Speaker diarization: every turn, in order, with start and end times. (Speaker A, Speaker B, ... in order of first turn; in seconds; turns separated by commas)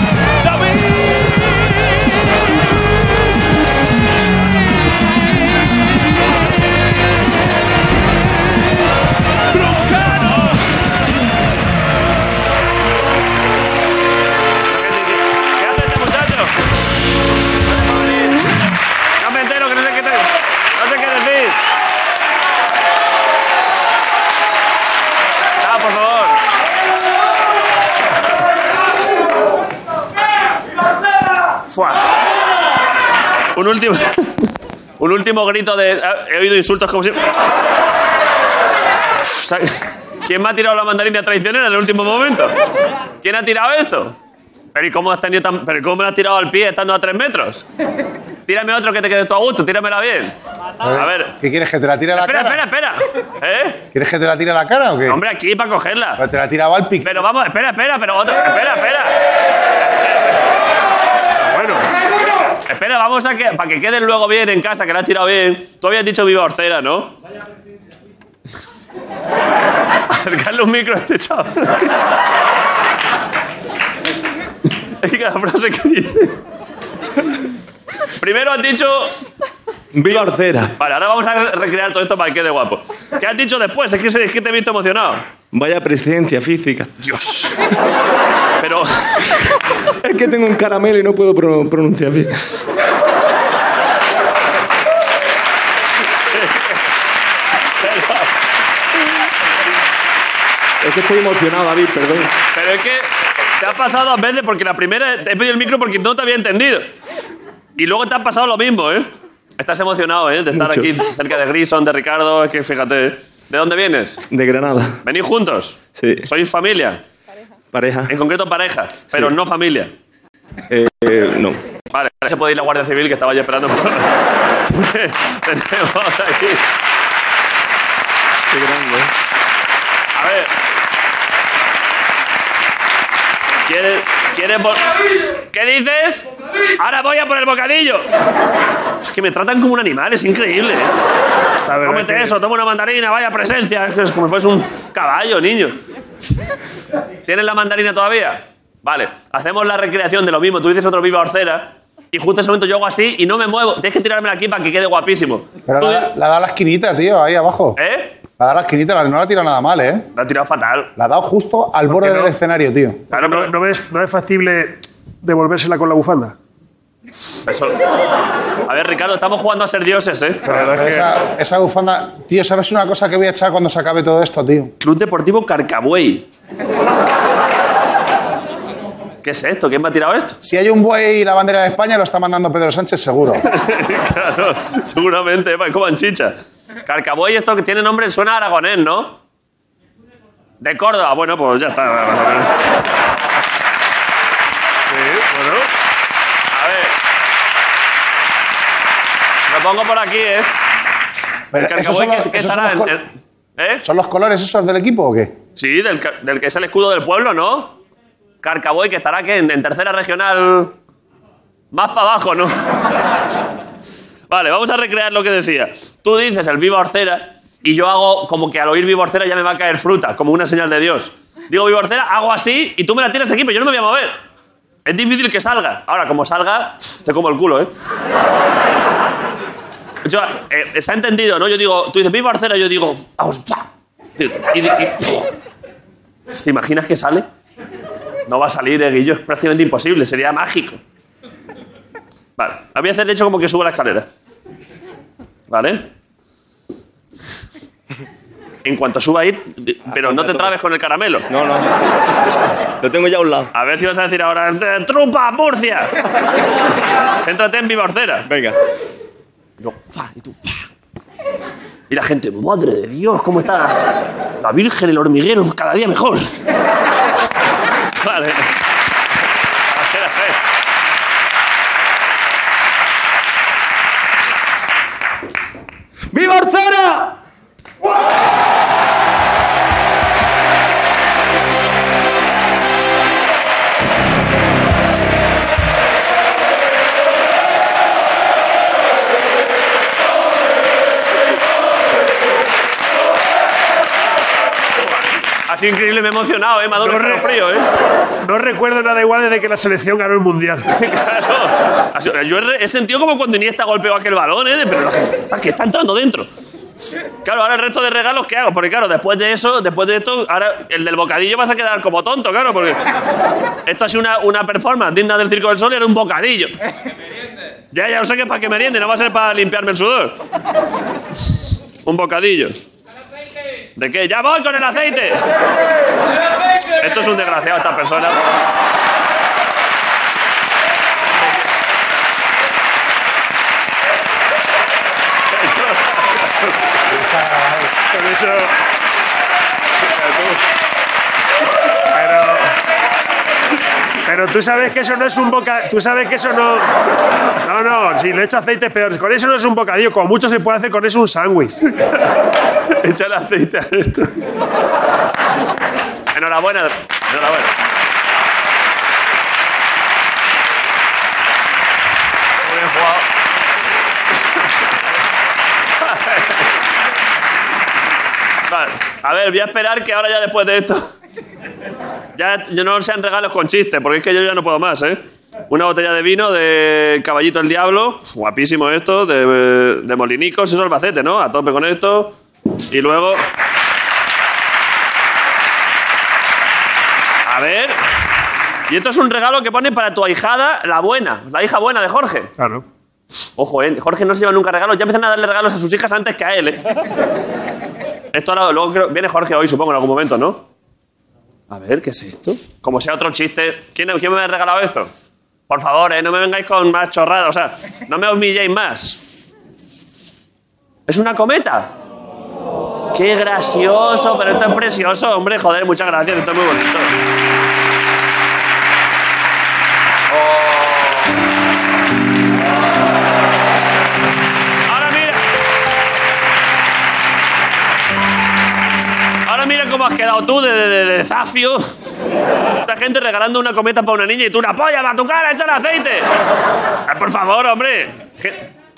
Speaker A: 0.4-1.5, Speaker B: 10.1-10.5, Speaker B: 14.7-16.5, Speaker B: 17.6-18.4, Speaker B: 19.2-21.6, Speaker B: 25.6-26.4, Speaker B: 31.7-32.1, Speaker B: 33.5-37.2, Speaker B: 39.2-42.5, Speaker B: 43.2-44.1, Speaker B: 44.7-47.6, Speaker B: 48.5-50.3, Speaker C: 50.8-52.6, Speaker B: 50.9-51.3, Speaker B: 52.1-53.8, Speaker C: 53.9-55.2, Speaker B: 55.1-56.2, Speaker C: 56.2-57.1, Speaker B: 57.0-59.2, Speaker A: 61.4-61.9, Speaker B: 62.7-67.1, Speaker B: 70.1-71.9, Speaker B: 75.0-76.4, Speaker B: 78.2-79.1, Speaker D: 79.9-80.7, Speaker B: 80.0-85.2, Speaker D: 85.5-86.9, Speaker B: 87.1-87.5, Speaker B: 88.6-89.3, Speaker D: 90.0-92.5, Speaker B: 96.3-96.7, Speaker B: 97.8-98.3, Speaker D: 100.8-102.3, Speaker B: 102.5-106.9, Speaker B: 107.8-114.2, Speaker D: 110.5-110.9, Speaker D: 114.3-115.0, Speaker B: 115.0-117.0, Speaker D: 116.0-116.3, Speaker D: 117.7-118.1, Speaker B: 118.1-119.9, Speaker D: 120.7-121.6, Speaker B: 121.9-126.6, Speaker D: 128.5-129.1, Speaker B: 130.2-130.5, Speaker B: 133.7-134.9, Speaker B: 135.4-136.3, Speaker B: 136.8-138.1, Speaker B: 139.0-140.9, Speaker A: 141.7-142.3, Speaker B: 141.7-145.8, Speaker B: 147.3-156.1, Speaker C: 155.7-157.8, Speaker B: 157.8-158.1, Speaker C: 158.4-160.1, Speaker B: 160.1-160.9, Speaker C: 161.0-163.0, Speaker A: 161.9-162.3, Speaker B: 163.1-163.5, Speaker A: 163.1-166.3, Speaker B: 167.4-167.7, Speaker B: 168.7-171.0, Speaker C: 170.4-174.7, Speaker B: 174.8-176.2, Speaker B: 179.2-180.4, Speaker C: 180.4-183.4, Speaker B: 183.5-186.3, Speaker B: 186.8-189.2, Speaker B: 190.6-192.5, Speaker B: 194.9-195.7, Speaker B: 196.5-196.9, Speaker B: 199.5-200.5, Speaker C: 201.5-203.0, Speaker B: 201.7-203.0, Speaker B: 203.6-203.8, Speaker C: 203.8-205.3, Speaker B: 205.6-207.7, Speaker B: 208.4-210.7, Speaker B: 211.7-212.6, Speaker B: 214.3-224.2, Speaker B: 224.8-227.7, Speaker B: 230.0-233.7, Speaker B: 234.2-235.3, Speaker B: 236.3-237.2, Speaker B: 238.3-240.8, Speaker B: 242.4-244.1, Speaker B: 245.5-245.9, Speaker B: 248.6-251.2, Speaker D: 250.0-250.5, Speaker D: 251.3-251.7, Speaker D: 252.8-253.5, Speaker B: 253.5-255.9, Speaker B: 257.2-258.3, Speaker D: 258.3-258.6, Speaker B: 259.6-260.7, Speaker B: 261.9-263.8, Speaker B: 264.4-266.3, Speaker B: 268.0-268.5, Speaker B: 269.7-270.4, Speaker C: 276.1-277.0, Speaker B: 294.8-297.6, Speaker A: 296.8-297.3, Speaker A: 298.2-300.8, Speaker B: 300.8-306.3, Speaker B: 307.2-312.8, Speaker B: 313.6-316.6, Speaker B: 317.7-320.1, Speaker B: 321.8-322.6, Speaker B: 323.8-325.2, Speaker B: 326.7-328.2, Speaker B: 335.4-336.0, Speaker C: 336.9-337.8, Speaker A: 337.9-338.5, Speaker A: 340.0-340.3, Speaker A: 341.9-342.5, Speaker A: 344.1-346.7, Speaker A: 347.4-351.6, Speaker B: 352.7-354.2, Speaker B: 356.1-357.5, Speaker B: 362.4-363.1, Speaker B: 365.8-366.3, Speaker B: 368.5-370.9, Speaker B: 372.1-382.1, Speaker B: 382.7-383.2, Speaker B: 387.2-387.8, Speaker B: 388.7-392.3, Speaker A: 392.4-392.6, Speaker B: 393.4-396.6, Speaker B: 398.1-400.4, Speaker B: 401.5-404.9, Speaker B: 405.5-409.0, Speaker B: 410.9-411.7, Speaker B: 412.9-416.9, Speaker B: 420.1-420.7, Speaker B: 424.7-425.2, Speaker B: 429.3-431.7, Speaker B: 432.6-436.1, Speaker B: 436.9-438.5